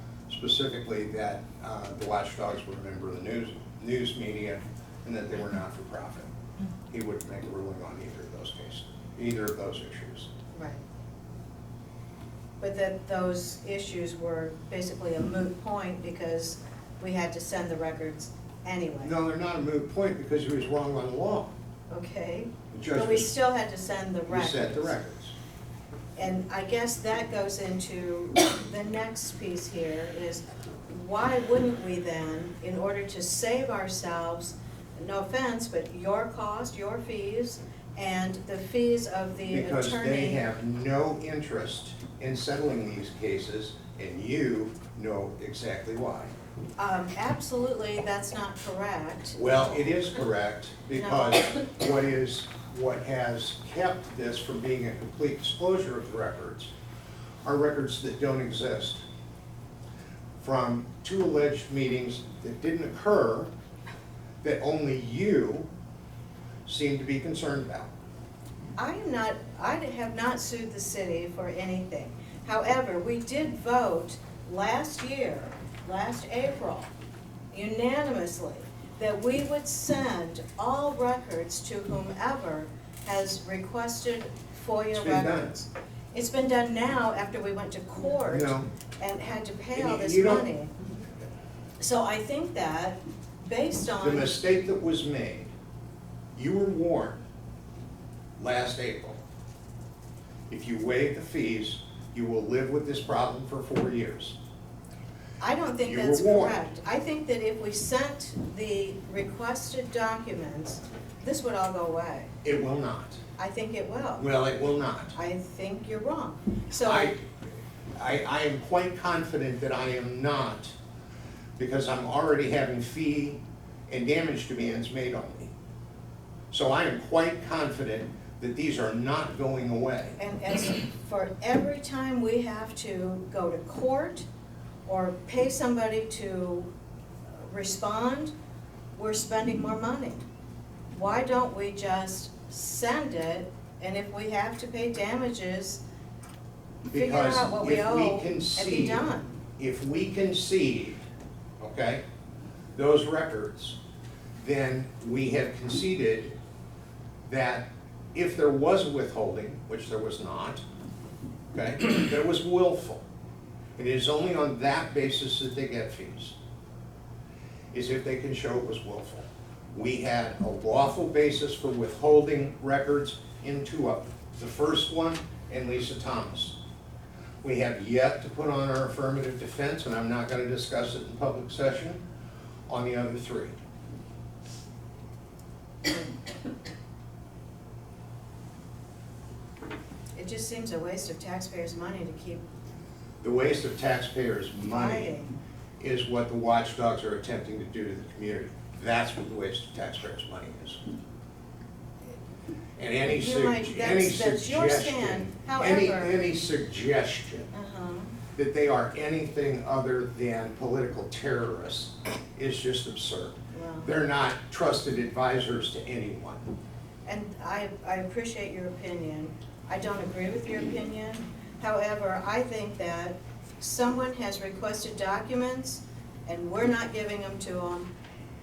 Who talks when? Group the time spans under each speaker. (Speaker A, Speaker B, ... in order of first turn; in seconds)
Speaker A: 0.3-6.3, 6.9-10.3, 19.0-21.6, 22.7-23.3, 24.3-25.4, 39.5-46.3, 49.4-56.7, 57.4-59.0, 60.4-63.5, 64.4-65.7, 66.7-67.9, 84.9-85.5, 88.3-88.7, 89.7-90.5, 94.0-95.5, 96.3-97.2, 98.4-99.2, 100.5-104.4, 105.8-106.6, 112.4-113.2, 114.2-115.1, 116.8-117.2, 117.9-120.7, 121.6-125.5, 126.5-130.2, 146.9-149.0, 149.6-151.1, 151.6-152.0, 152.7-153.8, 154.4-156.3, 157.2-160.6, 161.5-163.0, 163.8-166.3, 167.7-176.6, 177.4-182.0, 182.7-183.5, 193.2-195.1, 195.8-200.8, 202.8-207.5, 208.3-216.5
Speaker B: 10.5-10.8, 12.6-19.1, 21.9-24.9, 26.1-40.4, 46.8-49.7, 50.9-51.5, 68.8-76.9, 77.5-90.7, 91.8-94.4, 105.4-112.3, 113.4-114.2, 115.1-117.1, 130.2-134.3, 134.8-136.7, 137.3-138.3, 138.9-140.2, 140.9-145.8, 146.9-149.4, 190.1-192.4, 194.7-195.3, 203.1-206.2, 207.5-208.1, 213.5-213.9, 217.0-227.9